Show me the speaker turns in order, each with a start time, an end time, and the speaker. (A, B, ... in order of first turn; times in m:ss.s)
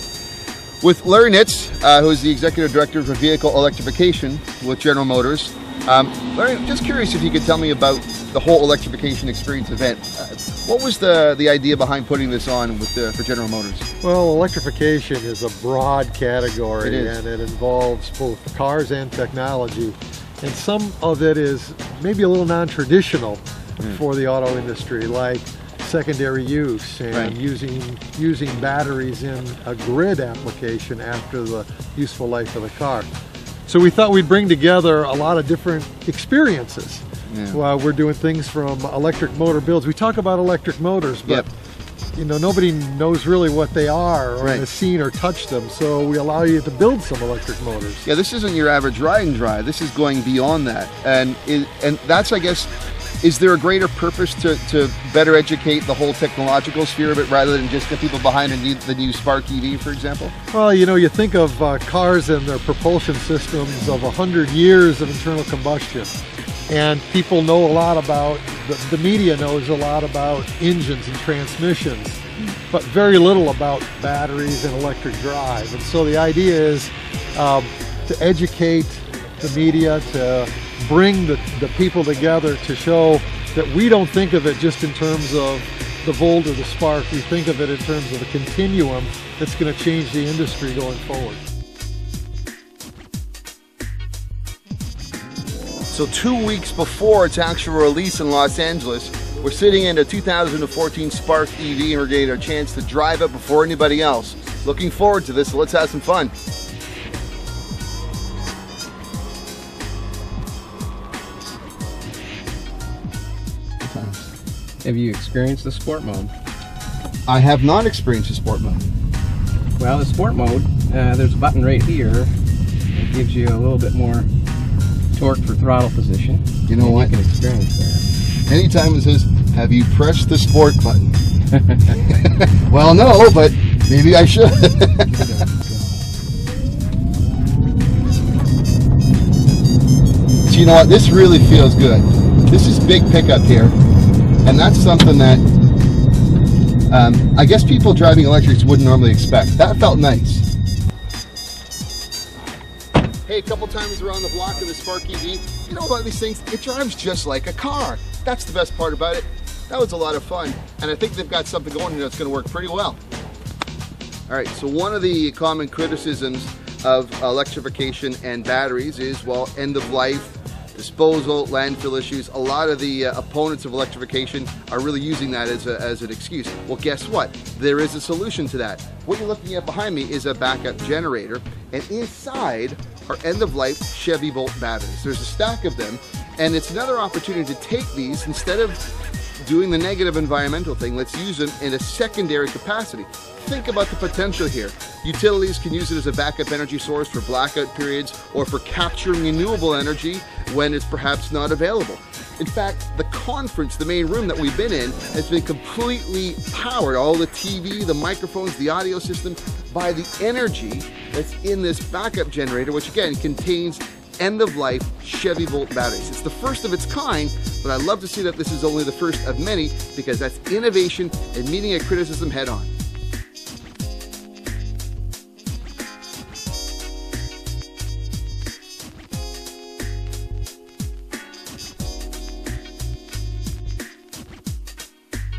0:00.8-0:13.8 A
0:14.0-0:33.1 B
0:16.8-0:17.2 A
0:33.7-0:41.5 B
0:37.3-0:37.6 A
0:42.2-0:48.0 B
0:48.0-0:52.7 A
0:53.2-1:00.3 A
1:00.5-1:06.1 B
1:06.7-1:31.4 B
1:35.9-1:46.3 A
1:53.8-1:54.3 A
1:54.8-1:56.3 C
1:57.3-1:58.9 A
1:59.8-2:02.3 C
2:02.9-2:04.3 C
2:05.1-2:08.1 C
2:06.7-2:07.1 A
2:08.5-2:11.1 A
2:11.9-2:15.4 A
2:20.5-2:23.8 A
2:24.4-2:25.4 A
2:26.9-2:30.4 A
2:33.3-2:43.0 A
2:44.3-3:08.8 A
3:09.4-3:42.7 A